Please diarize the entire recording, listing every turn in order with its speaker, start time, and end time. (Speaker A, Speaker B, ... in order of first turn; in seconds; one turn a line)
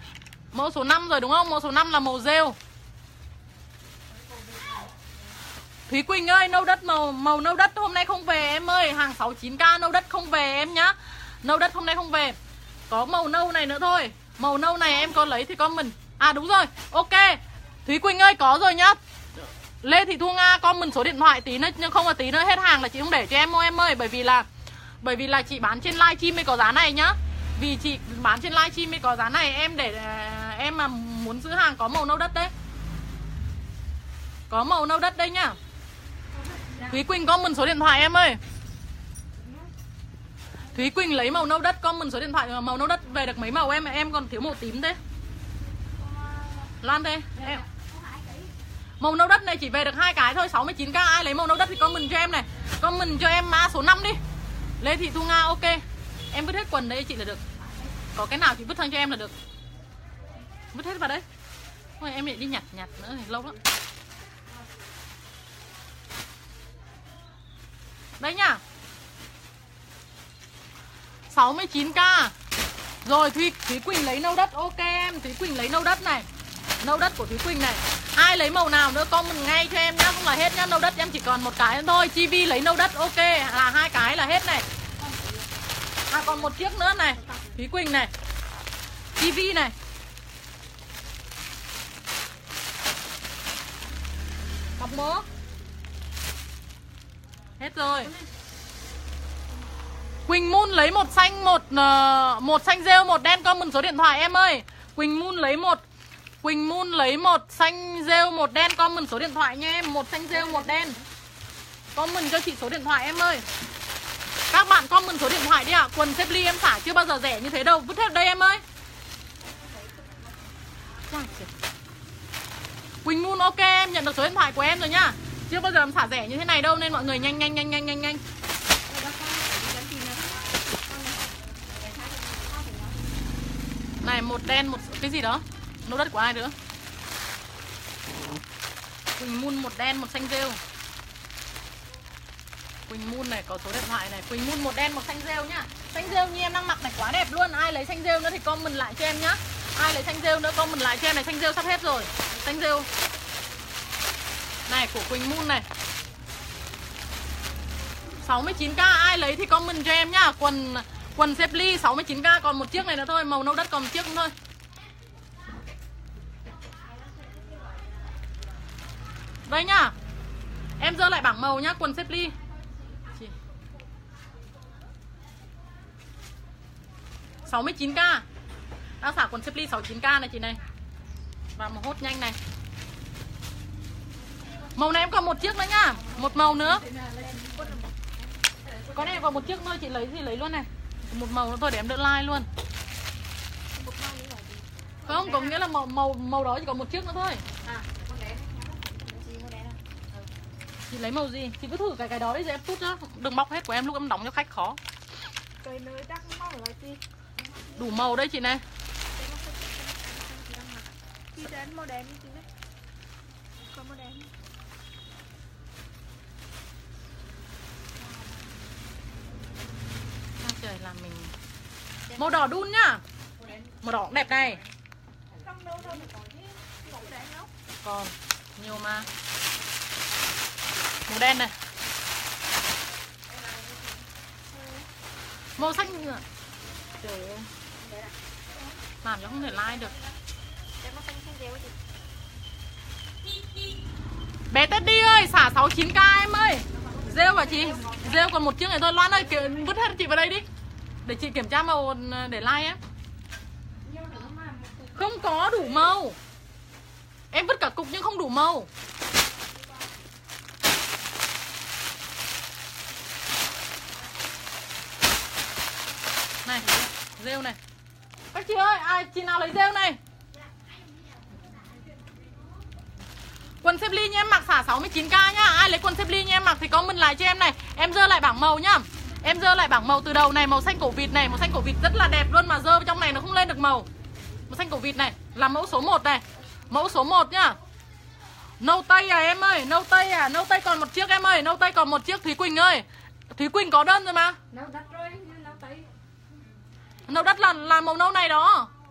Speaker A: 0.5-2.6
Speaker A: 5.9-12.4
Speaker A: 12.9-24.5
Speaker A: 25.0-32.5
Speaker A: 34.5-35.6
Speaker B: 36.3-37.0
Speaker A: 36.9-38.4
Speaker B: 39.4-39.7
Speaker A: 40.7-45.0
Speaker B: 46.0-46.7
Speaker A: 46.8-47.6
Speaker B: 47.4-48.5
Speaker A: 49.0-54.2
Speaker A: 54.8-57.4
Speaker B: 57.6-57.9
Speaker A: 58.1-59.4
Speaker A: 60.7-61.2
Speaker A: 62.0-63.6
Speaker A: 68.2-68.6
Speaker A: 71.3-72.3
Speaker A: 73.0-76.3
Speaker A: 76.8-84.7
Speaker B: 85.0-85.5
Speaker A: 86.1-88.1
Speaker B: 87.2-87.5
Speaker A: 89.2-89.7
Speaker A: 94.8-95.2
Speaker A: 97.6-98.1
Speaker A: 100.3-105.8
Speaker A: 106.4-111.0
Speaker B: 110.3-111.0
Speaker A: 112.0-113.5
Speaker A: 114.5-118.6
Speaker B: 119.7-120.2
Speaker A: 121.1-121.5
Speaker A: 123.0-128.2
Speaker B: 128.9-133.0
Speaker A: 134.0-136.6
Speaker A: 139.2-140.6
Speaker A: 142.9-152.9
Speaker A: 154.7-155.7
Speaker A: 158.2-164.3
Speaker A: 169.5-169.9
Speaker A: 170.8-172.4
Speaker A: 177.5-178.2
Speaker A: 179.0-180.6
Speaker A: 181.6-182.4
Speaker A: 184.8-186.8
Speaker B: 186.5-187.9
Speaker C: 186.7-187.9
Speaker B: 188.5-189.5
Speaker A: 188.9-192.5
Speaker B: 193.8-195.6
Speaker A: 195.1-197.4
Speaker B: 197.6-199.8
Speaker A: 200.9-204.8
Speaker C: 205.6-207.0
Speaker A: 207.8-208.6
Speaker C: 209.1-212.5
Speaker C: 213.7-214.3
Speaker A: 220.4-221.3
Speaker A: 222.2-223.0
Speaker A: 223.8-224.6
Speaker C: 225.3-227.5
Speaker B: 225.8-226.1
Speaker A: 227.8-229.1
Speaker A: 231.1-231.6
Speaker B: 234.5-234.9
Speaker A: 235.6-236.2
Speaker A: 237.0-237.5
Speaker B: 237.9-238.1
Speaker A: 239.0-239.9
Speaker B: 240.8-241.8
Speaker A: 244.5-250.5
Speaker B: 246.8-248.3
Speaker A: 251.0-252.8
Speaker B: 253.8-255.7
Speaker A: 254.9-256.2
Speaker A: 257.3-258.7
Speaker A: 266.4-267.6
Speaker A: 268.3-270.0
Speaker A: 273.6-283.9
Speaker A: 284.5-287.6
Speaker A: 288.6-294.4
Speaker B: 294.5-295.9
Speaker A: 297.1-298.7